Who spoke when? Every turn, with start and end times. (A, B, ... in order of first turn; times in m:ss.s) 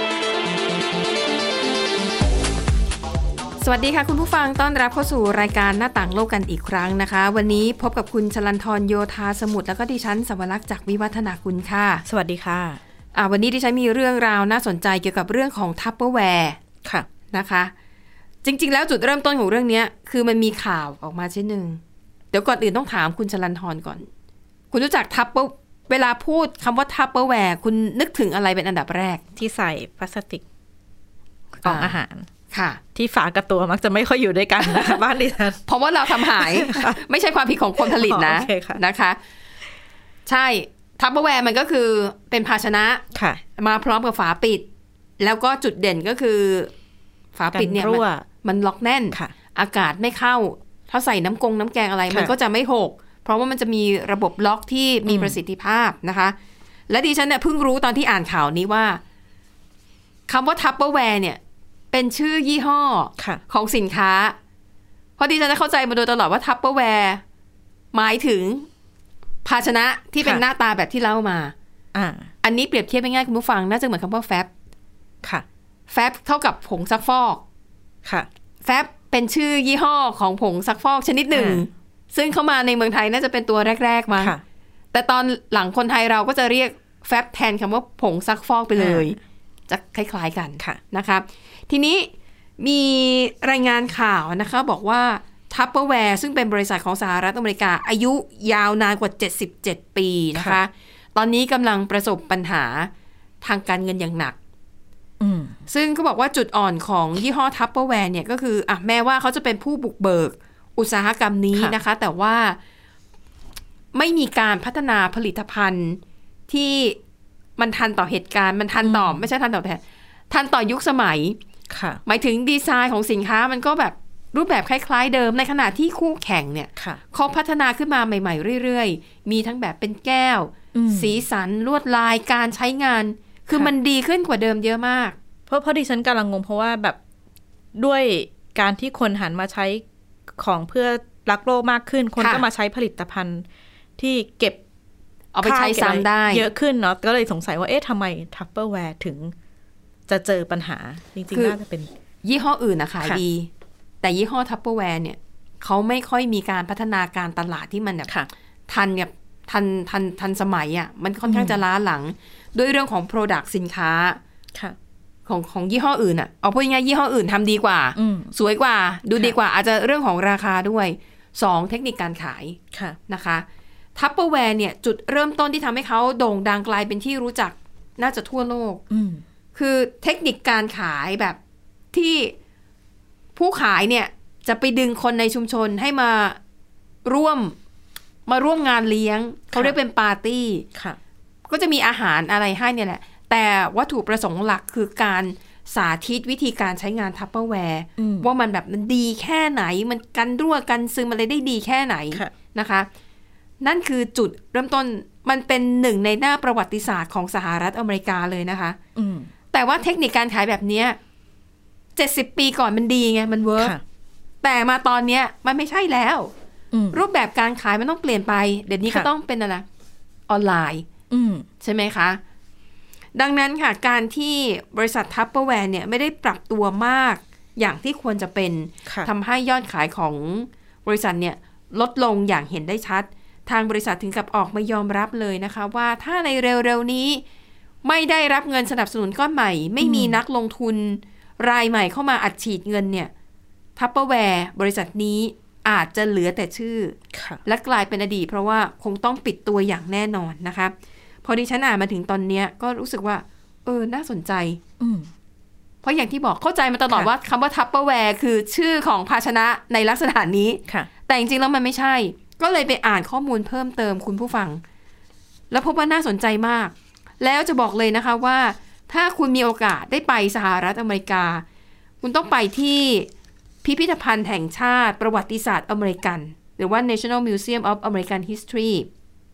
0:03.6-0:12.0 A
0:12.0-0:12.8 B
0:13.1-0:16.6 A
0:17.3-0:17.7 A
0:18.4-0:21.8 A
0:22.3-0:24.1 A
0:24.7-0:29.2 A
0:29.4-0:30.4 B
0:31.6-0:32.3 B
0:31.6-0:32.0 A
0:32.5-0:32.8 A
0:32.9-0:37.0 B
0:34.6-0:35.0 A
0:35.6-0:39.2 A
0:37.8-0:38.8 B
0:40.2-0:44.6 A
0:43.1-0:43.4 B
0:45.2-0:46.7 A
0:47.3-0:56.4 A
0:47.5-0:48.2 B
0:55.1-0:55.4 B
0:56.9-0:59.0 A
1:00.3-1:01.4 A
1:01.9-1:04.4 A
1:05.2-1:07.2 A
1:07.9-1:08.7 A
1:09.4-1:11.5 A
1:11.9-1:12.3 B
1:12.4-1:14.5 A
1:15.9-1:17.4 A
1:18.6-1:24.4 A
1:21.3-1:21.6 B
1:24.9-1:42.9 A
1:28.8-1:29.1 B
1:43.4-1:44.4 A
1:45.2-1:45.6 B
1:45.7-1:52.6 A
1:53.9-1:57.0 A
1:57.6-2:01.4 A
1:58.8-1:59.2 B
2:01.7-2:02.0 B
2:02.0-2:15.2 A
2:10.7-2:11.2 B
2:15.5-2:17.0 B
2:17.7-2:19.8 B
2:20.4-2:23.4 B
2:22.2-2:22.4 A
2:24.0-2:24.6 B
2:25.3-2:26.4 A
2:25.4-2:29.3 B
2:30.1-2:31.9 B
2:32.2-2:33.5 A
2:34.0-2:38.1 A
2:38.7-2:44.2 A
2:41.3-2:41.6 B
2:45.2-2:53.4 A
2:48.0-2:48.3 B
2:52.7-2:53.0 B
2:54.0-2:58.8 A
2:58.9-2:59.2 B
2:59.5-3:01.4 A
3:01.9-3:02.3 A
3:03.4-3:06.4 A
3:07.0-3:07.6 A
3:08.3-3:10.6 A
3:11.5-3:22.9 A
3:18.0-3:18.3 B
3:23.6-3:28.8 A
3:29.0-3:29.3 B
3:29.5-3:31.0 A
3:32.0-3:33.8 A
3:34.4-3:36.3 A
3:36.7-3:37.0 B
3:36.9-3:39.6 A
3:40.3-3:40.9 A
3:41.1-3:41.4 B
3:41.6-3:42.2 A
3:43.2-3:57.2 A
3:57.8-4:03.1 A
3:59.8-4:00.2 B
4:03.8-4:14.6 A
4:07.1-4:07.4 B
4:14.8-4:15.1 B
4:15.8-4:24.6 A
4:25.5-4:31.4 A
4:32.0-4:33.1 A
4:33.6-4:38.9 A